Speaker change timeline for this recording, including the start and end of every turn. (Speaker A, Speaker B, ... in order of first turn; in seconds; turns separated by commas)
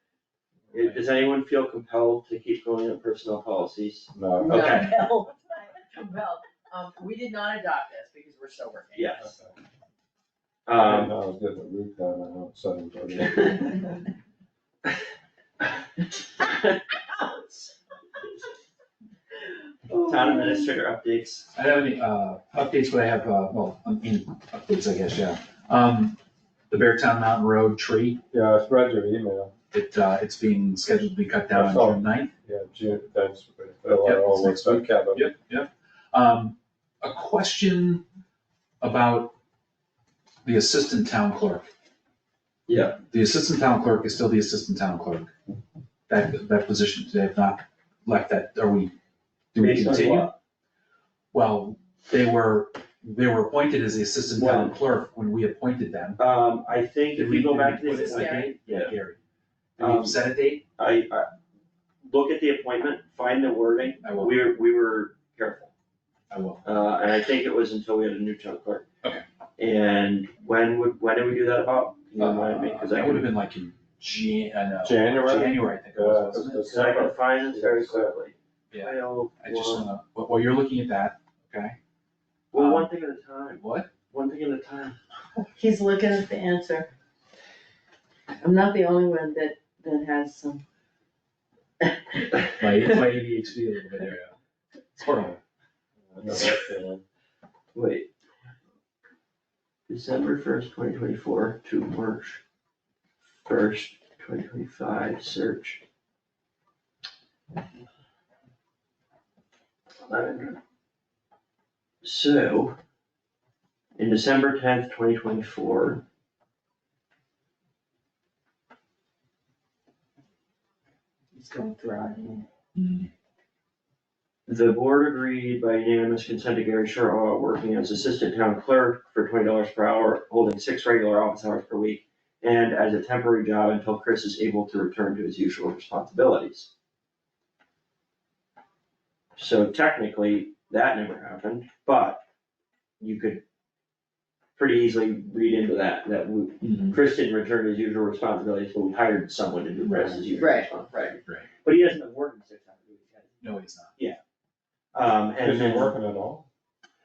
Speaker A: 0.7-4.9, Speaker B: 0.8-1.0, Speaker C: 4.1-4.8, Speaker D: 4.4-9.3, Speaker A: 8.9-9.3, Speaker C: 9.2-9.5, Speaker A: 10.7-11.1, Speaker C: 10.7-13.8, Speaker A: 13.2-13.6, Speaker A: 16.4-16.8, Speaker D: 19.4-20.8, Speaker A: 20.1-21.5, Speaker B: 21.5-26.2, Speaker B: 26.7-28.2, Speaker C: 28.3-29.5, Speaker B: 29.7-32.3, Speaker C: 31.5-35.3, Speaker B: 34.0-38.0, Speaker B: 38.8-39.3, Speaker B: 40.4-41.7, Speaker A: 42.7-43.0, Speaker B: 43.0-45.3, Speaker B: 46.1-48.9, Speaker B: 49.5-50.3, Speaker A: 49.6-50.3, Speaker B: 51.3-56.2, Speaker A: 54.4-54.8, Speaker A: 56.2-58.9, Speaker B: 57.1-59.2, Speaker D: 57.9-58.5, Speaker B: 59.8-60.6, Speaker A: 59.8-60.2, Speaker A: 60.8-61.3, Speaker A: 62.0-65.7, Speaker B: 64.0-64.4, Speaker B: 66.3-66.8, Speaker A: 66.6-68.8, Speaker A: 69.6-73.3, Speaker B: 72.2-76.7, Speaker C: 74.8-78.1, Speaker A: 76.7-79.9, Speaker B: 78.7-81.8, Speaker A: 82.5-85.0, Speaker B: 82.5-82.9, Speaker B: 83.5-83.9, Speaker D: 85.4-86.9, Speaker D: 88.4-90.6, Speaker D: 91.8-92.9, Speaker B: 92.6-94.3, Speaker B: 95.0-95.4, Speaker C: 96.1-97.0, Speaker A: 96.2-96.7, Speaker A: 97.7-98.1, Speaker A: 99.9-102.4, Speaker A: 103.4-105.8, Speaker A: 110.0-110.6, Speaker A: 112.0-112.8, Speaker A: 114.0-116.0, Speaker B: 121.3-123.1, Speaker D: 121.6-122.4, Speaker A: 124.5-136.7, Speaker A: 139.3-142.2, Speaker A: 143.0-143.4, Speaker A: 144.6-153.4, Speaker B: 146.6-147.0, Speaker B: 149.8-150.2, Speaker D: 150.3-151.2, Speaker B: 153.4-154.0, Speaker A: 154.9-155.9, Speaker C: 155.4-156.5